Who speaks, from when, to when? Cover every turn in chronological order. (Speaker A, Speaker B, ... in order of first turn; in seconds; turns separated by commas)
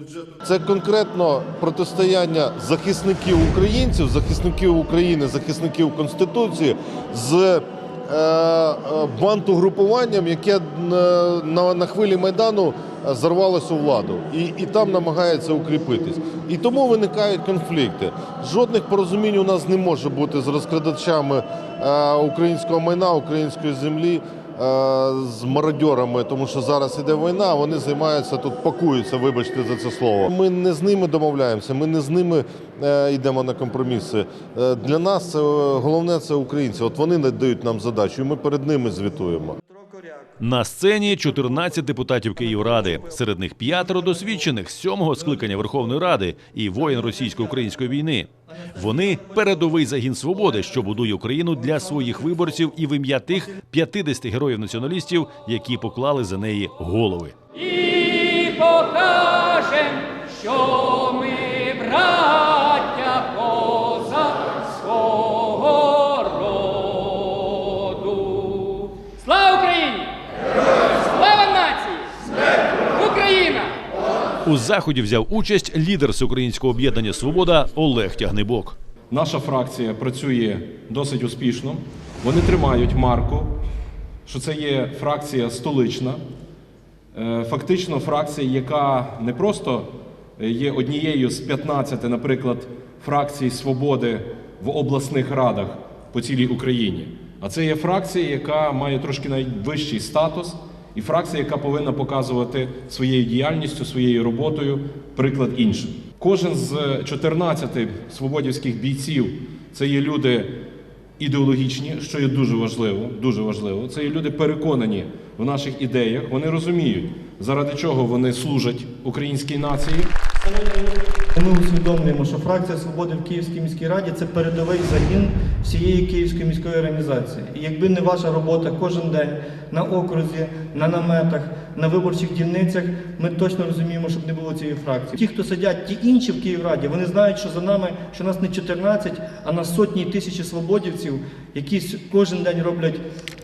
Speaker A: 0.4-39.6, Speaker B: 39.7-40.3, Speaker C: 40.4-57.3, Speaker D: 57.7-70.1, Speaker D: 71.1-72.0, Speaker D: 73.0-73.7, Speaker C: 74.4-78.8, Speaker E: 79.1-83.5, Speaker E: 84.2-86.2, Speaker E: 87.1-110.5, Speaker E: 111.2-120.1, Speaker B: 121.3-143.0